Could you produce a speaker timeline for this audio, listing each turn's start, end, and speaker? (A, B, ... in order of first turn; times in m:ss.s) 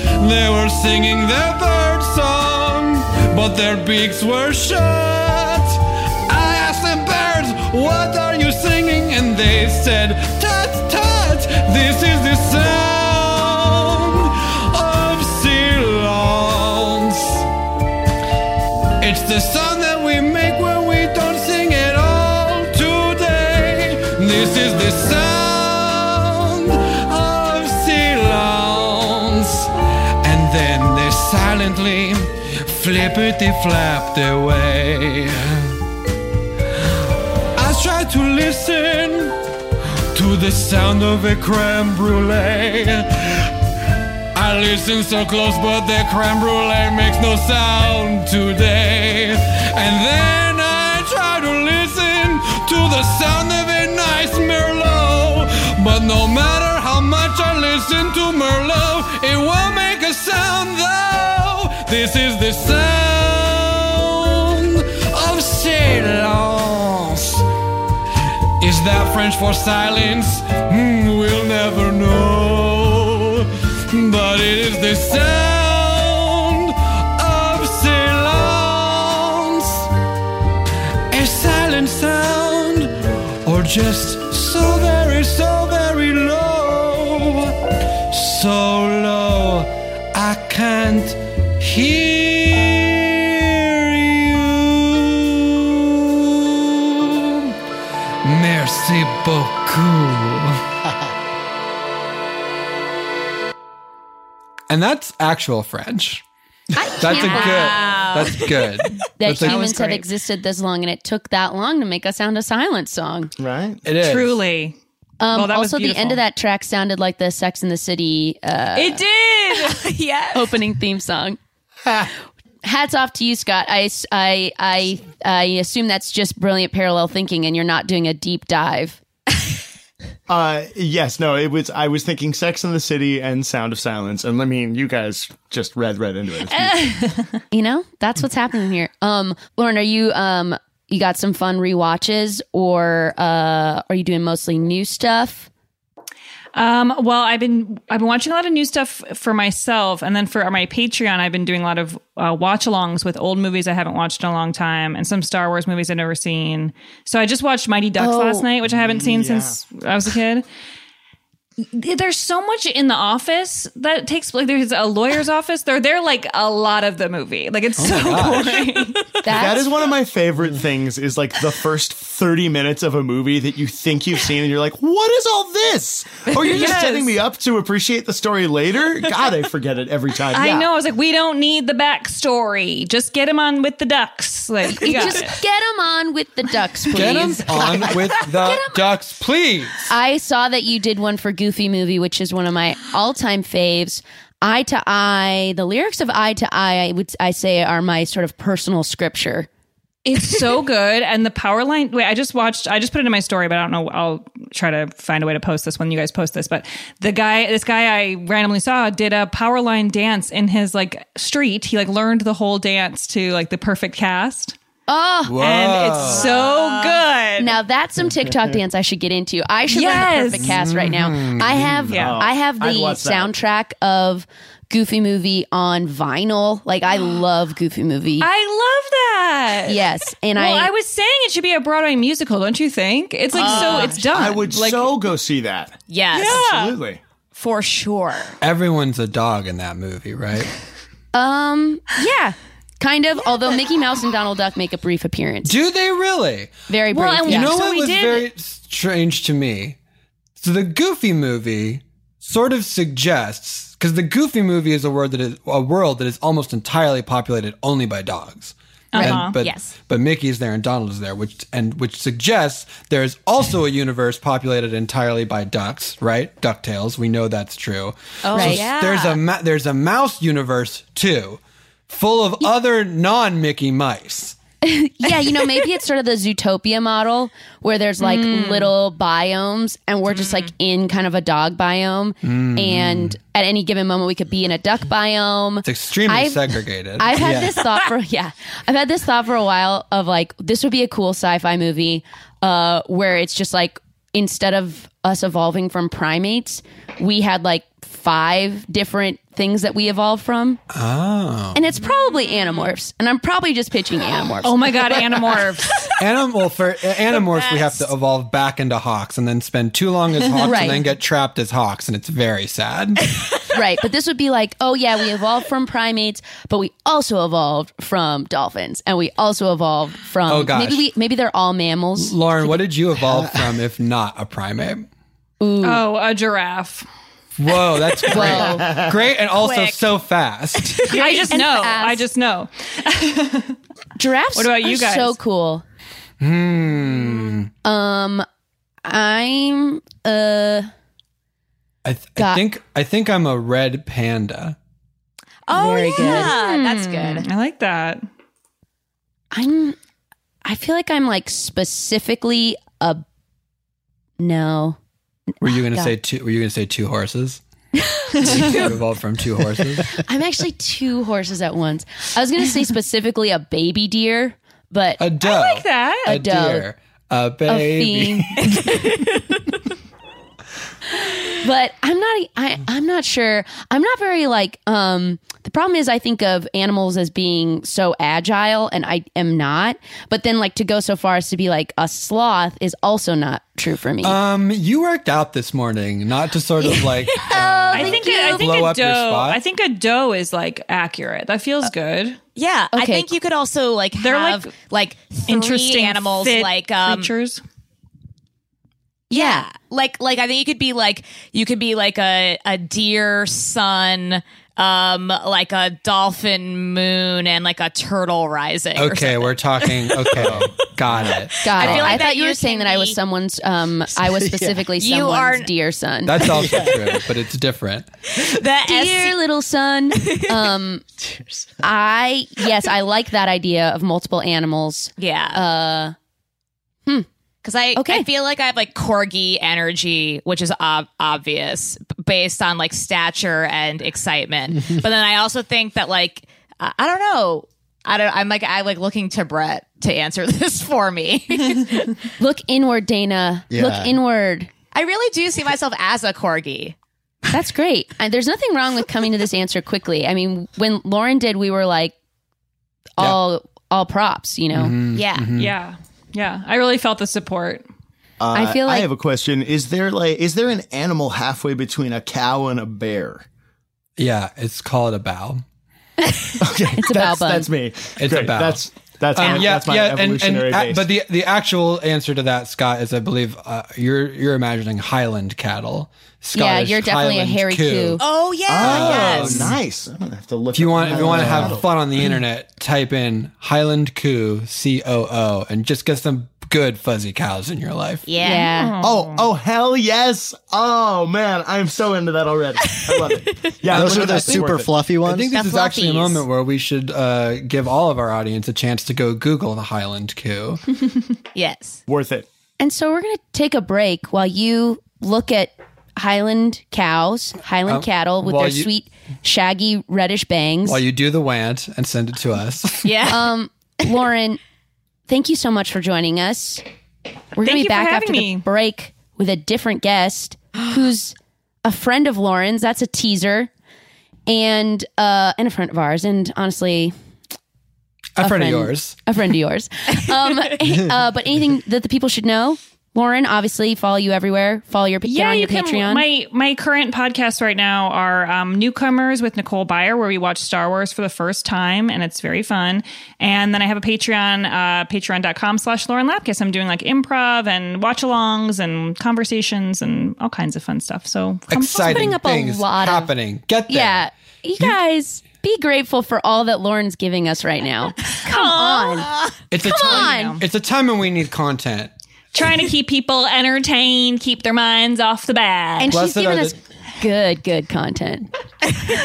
0:00.2-0:17.4 A
0:19.0-0:29.7 A
0:30.2-0:35.8 A
0:37.6-0:39.4 A
0:40.1-0:43.5 A
0:44.3-1:07.4 A
1:08.6-1:19.9 A
1:21.1-1:27.5 A
1:28.1-1:37.5 A
1:38.2-1:40.6 A
1:44.7-1:46.2 A
1:46.8-1:48.0 B
1:47.0-1:49.7 A
1:47.0-1:48.7 C
1:49.2-1:53.3 B
1:49.4-1:49.8 C
1:53.4-1:53.8 D
1:53.8-1:54.4 A
1:53.9-1:54.8 E
1:55.2-1:59.0 B
1:55.3-1:56.2 E
1:58.7-1:59.8 E
1:59.6-2:00.5 C
2:00.3-2:01.4 B
2:02.6-2:09.0 B
2:10.3-2:16.9 D
2:16.5-2:17.3 E
2:17.5-2:25.5 B
2:26.5-2:40.4 E
2:38.0-2:38.5 B
2:38.6-2:39.6 D
2:41.7-2:49.2 E
2:47.8-2:48.7 A
2:49.2-2:49.7 B
2:49.3-3:00.7 D
2:56.3-2:57.1 E
3:00.3-3:05.3 E
3:04.8-3:07.5 B
3:06.9-3:09.9 A
3:09.9-3:19.5 B
3:20.0-3:34.6 E
3:34.9-3:35.3 B
3:35.3-3:36.5 A
3:35.4-3:37.5 E
3:36.0-3:37.0 C
3:37.4-3:48.3 B
3:39.7-3:40.6 E
3:40.4-3:42.0 A
3:41.9-3:43.3 D
3:41.9-3:42.2 E
3:48.2-3:54.9 E
3:49.7-3:50.7 B
3:53.3-3:57.0 D
3:53.4-3:54.0 C
3:53.5-3:53.9 B
3:55.9-3:56.4 C
3:56.1-3:56.7 E
3:57.3-3:58.4 C
3:58.4-4:00.5 A
4:01.1-4:05.6 B
4:05.4-4:06.5 A
4:06.7-4:07.6 B
4:06.9-4:08.3 E
4:07.3-4:09.8 A
4:10.4-4:34.4 A
4:18.9-4:19.4 E
4:19.4-4:19.7 C
4:28.2-4:29.2 C
4:28.3-4:28.6 B
4:34.6-4:46.4 B
4:38.0-4:38.7 C
4:40.1-4:40.5 C
4:42.2-4:43.2 A
4:45.6-4:47.6 A
4:47.0-5:00.6 B
5:00.7-5:01.6 A
5:01.5-5:04.5 B
5:04.4-5:05.9 E
5:06.0-5:13.0 A
5:07.2-5:07.8 C
5:10.4-5:10.8 B
5:13.5-5:22.2 B
5:20.2-5:20.9 A
5:22.0-5:24.9 A
5:25.4-5:25.8 B
5:25.6-5:26.8 E
5:27.4-5:30.9 A
5:28.1-5:28.6 B
5:28.1-5:28.9 D
5:29.3-5:29.8 C
5:30.7-5:31.3 C
5:30.9-5:33.6 E
5:30.9-5:32.0 B
5:34.0-5:35.6 B
5:34.3-5:35.2 E
5:36.2-5:37.5 A
5:37.6-5:38.2 B
5:38.8-5:40.7 B
5:41.8-5:44.6 A
5:42.2-5:42.4 B
5:45.5-5:47.2 C
5:45.5-5:46.4 B
5:45.8-5:48.0 E
5:49.3-5:49.8 B
5:50.4-5:53.0 B
5:54.2-5:54.8 B
5:55.4-5:57.4 A
5:55.5-5:55.9 B
5:58.1-5:58.7 B
5:58.2-6:00.0 A
5:59.9-6:05.0 B
6:05.0-6:08.8 A
6:05.2-6:06.1 E
6:06.0-6:06.6 B
6:07.5-6:08.5 B
6:11.4-6:24.2 B
6:24.0-6:29.4 A
6:27.2-6:28.6 B
6:27.7-6:32.2 E
6:32.4-6:37.1 C
6:32.7-6:33.1 B
6:34.0-6:34.5 E
6:35.3-6:37.4 E
6:39.1-6:39.5 B
6:39.1-6:50.4 C
6:48.7-6:52.0 A
6:51.0-6:53.0 C
6:51.4-6:56.2 B
6:54.0-6:54.7 F
6:54.8-6:55.5 C
6:56.0-6:57.9 A
6:56.3-6:56.7 F
6:58.2-6:59.2 C
6:58.6-7:00.8 B
7:01.0-7:01.6 F
7:01.6-7:05.9 B
7:05.0-7:05.4 C
7:07.4-7:21.9 C
7:07.7-7:08.1 B
7:22.2-7:24.5 B
7:23.5-7:23.9 F
7:24.7-7:26.8 C
7:27.3-7:31.9 B
7:33.0-7:34.8 B
7:34.5-7:35.5 A
7:34.9-7:35.3 C
7:35.4-7:37.6 E
7:38.2-7:43.2 D
7:38.3-7:38.9 B
7:44.0-7:45.4 A
7:46.4-7:50.9 D
7:46.8-7:47.5 B
7:48.0-7:59.6 A
7:56.3-7:58.0 B
7:58.0-7:59.5 C
7:58.5-8:02.2 D
8:00.5-8:08.0 A
8:08.0-8:08.7 C
8:08.2-8:08.7 B
8:08.7-8:09.2 E
8:08.8-8:14.7 D
8:13.7-8:15.3 F
8:13.8-8:14.4 A
8:15.0-8:20.6 A
8:15.3-8:16.2 C
8:21.3-8:21.8 C
8:21.9-8:22.2 D
8:22.6-8:30.8 B
8:27.7-8:28.7 A
8:30.6-8:33.0 A
8:32.8-8:33.2 C
8:33.1-8:34.4 B
8:35.1-8:36.6 B
8:37.3-8:43.5 B
8:37.4-8:38.4 E
8:44.3-8:46.9 B
8:48.2-8:49.0 A
8:48.2-8:56.0 B
8:55.0-9:12.1 E
9:11.5-9:14.1 A
9:11.7-9:13.1 B
9:13.7-9:19.1 B
9:18.3-9:19.0 E
9:19.5-9:21.9 A
9:19.6-9:20.4 B
9:19.7-9:20.4 E
9:22.3-9:25.9 E
9:25.8-9:28.3 B
9:25.9-9:26.5 A